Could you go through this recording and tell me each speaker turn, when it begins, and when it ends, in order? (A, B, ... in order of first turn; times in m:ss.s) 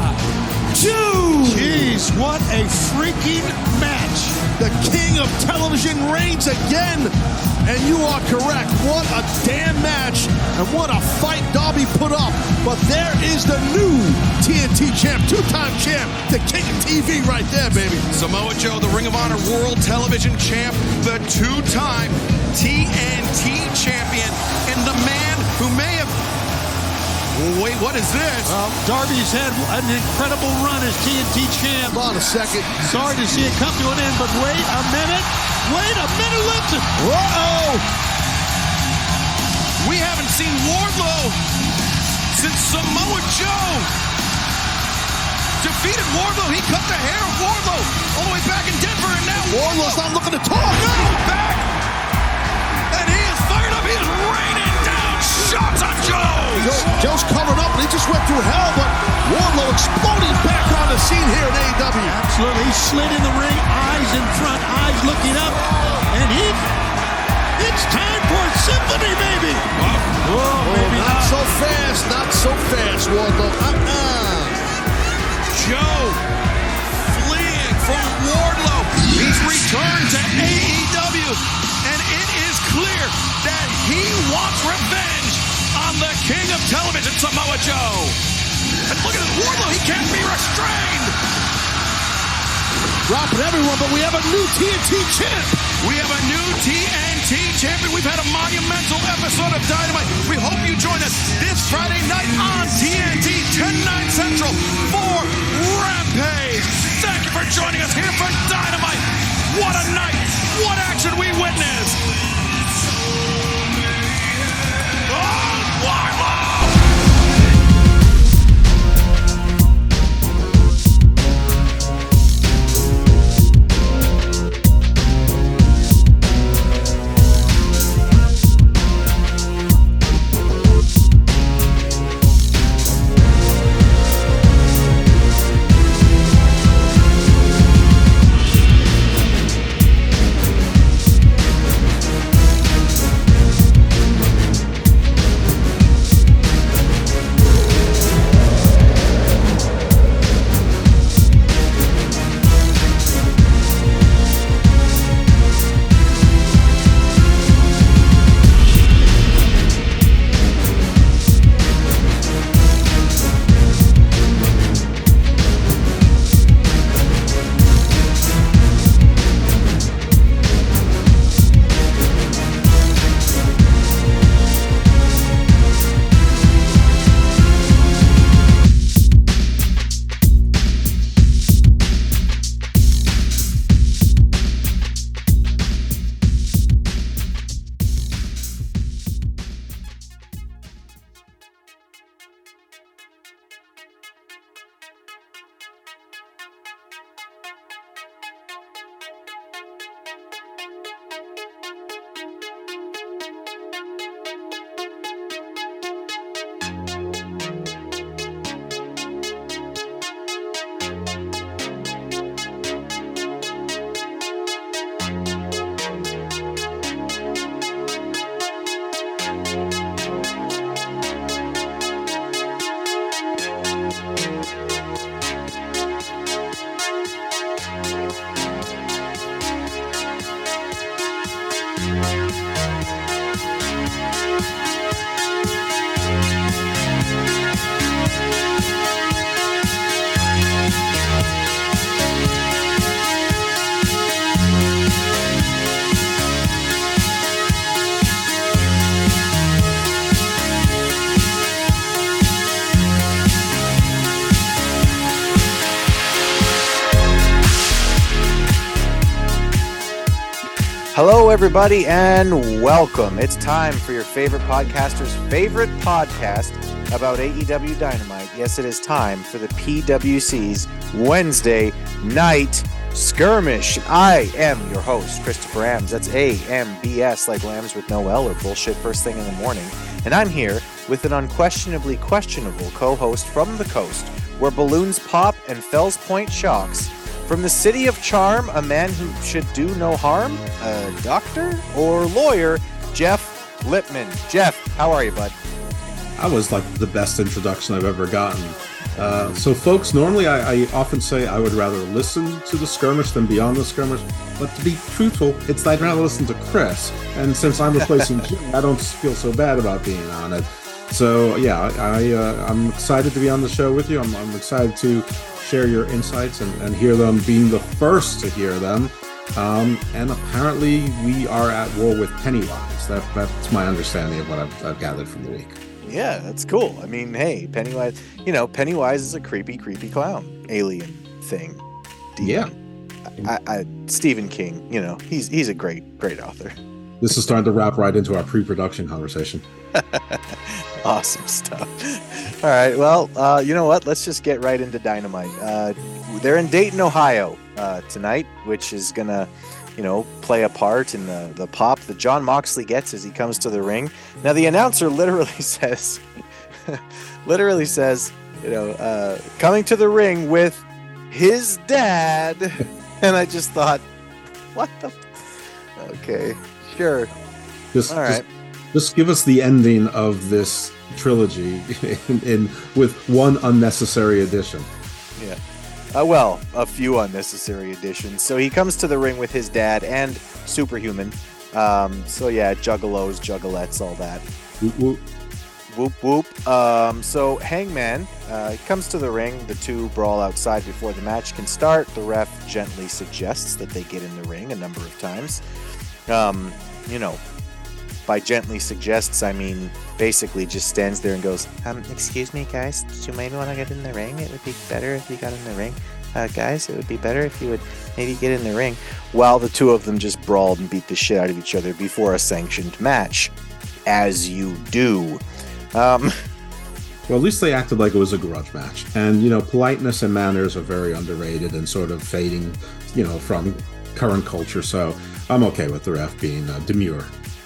0:01.4-0:01.9 A
0:01.4-0:04.4 B
0:04.5-0:18.1 A
0:18.1-0:26.2 C
0:27.4-0:28.6 C
0:28.5-0:32.0 B
0:31.9-0:33.6 A
0:32.8-0:37.0 B
0:37.0-0:37.8 A
0:39.8-0:41.4 C
0:42.3-0:43.9 C
0:45.6-0:50.1 C
0:49.4-0:51.2 A
0:50.7-0:51.7 C
0:52.9-0:57.0 C
0:56.6-1:02.2 A
1:02.1-1:06.7 B
1:07.6-1:09.7 B
1:09.8-1:10.2 C
1:10.2-1:11.3 B
1:10.6-1:14.6 A
1:11.0-1:11.3 C
1:15.5-1:16.2 C
1:16.9-1:28.2 C
1:28.9-1:31.2 C
1:33.1-1:35.6 A
1:35.7-1:52.1 C
1:55.0-1:56.8 C
4:20.9-4:55.4 D
4:56.2-5:25.6 E
5:25.9-5:31.6 D
5:32.2-5:32.5 D
5:32.2-5:32.5 E
5:33.2-5:36.6 D
5:37.0-5:39.4 E
5:39.8-5:56.0 D
5:56.7-6:03.8 D
6:04.6-6:05.0 D
6:05.8-6:07.1 D
6:07.7-6:14.7 E
6:07.9-6:08.3 D
6:15.9-6:24.2 D
6:24.6-6:25.0 E
6:25.7-6:35.4 D
6:36.1-6:37.2 D
6:38.1-6:53.3 D
6:53.9-6:55.2 D
6:55.7-6:56.1 D
6:57.1-7:07.1 E